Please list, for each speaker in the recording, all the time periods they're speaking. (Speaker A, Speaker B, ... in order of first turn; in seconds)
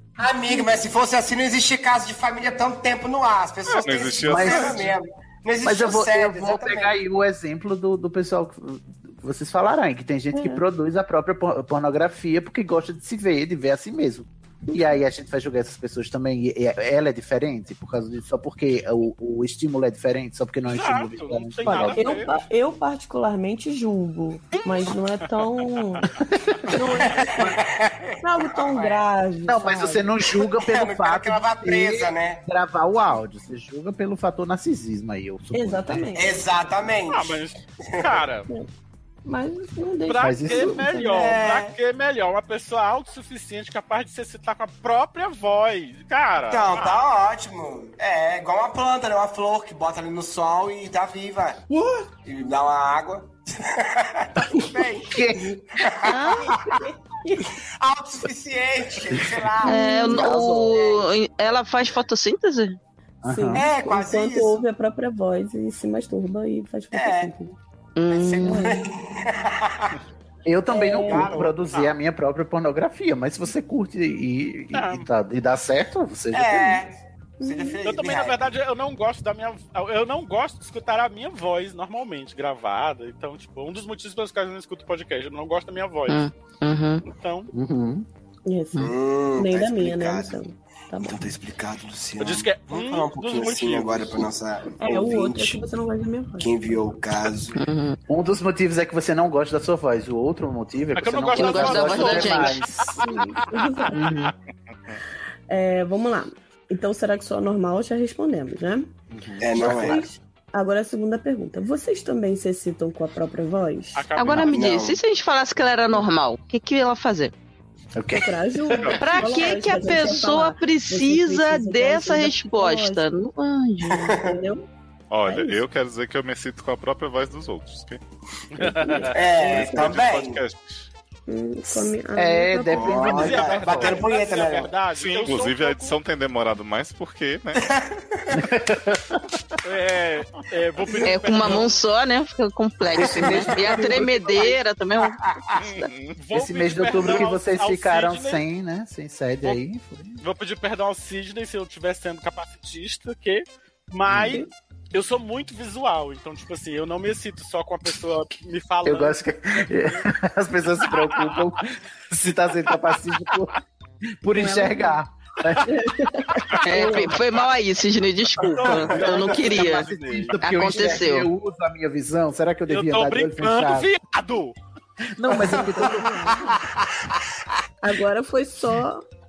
Speaker A: 0.2-6.9, 27.1-29.0, 30.3-32.4, 36.1-37.4, 38.0-38.2, 41.1-41.7, 46.5-51.7, 52.2-56.8, 57.8-61.0, 63.5-64.6, 66.9-67.3, 68.1-70.0, 71.0-71.7, 76.3-78.5, 88.8-90.4, 91.0-95.6, 96.4-97.6, 109.4-110.0, 114.4-115.0, 123.9-124.4, 129.1-130.4, 132.7-134.7, 137.5-138.5, 143.0-145.7, 168.6-169.4, 175.3-177.3
Speaker B: 3.7-4.9, 118.8-119.2, 125.1-128.0, 129.4-130.9, 134.9-137.6, 145.6-146.2
Speaker C: 4.2-4.8, 5.6-22.1, 26.3-26.8, 29.4-36.0, 40.2-40.9, 55.1-55.9, 63.2-63.6, 70.4-76.8, 87.5-88.1, 98.1-103.0, 109.1-110.1, 117.9-118.4, 131.7-134.1, 138.3-139.4, 142.9-144.2, 146.3-150.2, 154.1-154.4, 158.8-163.6, 164.2-165.7, 168.9-173.9, 175.2-176.6
Speaker D: 10.3-10.6, 14.7-15.0, 21.6-26.1, 26.7-27.5, 28.2-30.1, 35.5-36.3, 39.2-41.4, 56.5-57.5, 59.6-60.6, 63.2-67.5, 70.7-71.5, 77.4-77.8, 88.5-91.2, 94.8-96.5, 103.0-104.1, 105.5-108.9, 109.5-114.1, 118.1-123.1, 124.2-124.7, 125.2-125.6, 128.6-130.0, 131.3-133.1, 144.0-144.5, 164.3-165.0, 165.6-167.2, 175.8-176.4, 177.8-179.0
Speaker E: 20.7-22.4, 37.1-38.5, 40.1-47.0, 74.7-75.1, 77.8-86.2, 87.1-87.5, 92.2-94.3, 100.9-103.6, 113.9-114.9, 128.5-129.1, 133.0-136.0, 139.6-141.7, 146.2-148.4, 150.2-160.0, 160.9-161.4, 168.4-170.4, 172.7-174.6
Speaker F: 56.1-56.5, 59.6-62.8, 68.0-68.7, 86.1-87.0, 97.5-98.0, 101.4-102.6, 104.0-104.3, 114.2-117.3, 118.9-124.0, 141.0-145.2, 166.6-171.3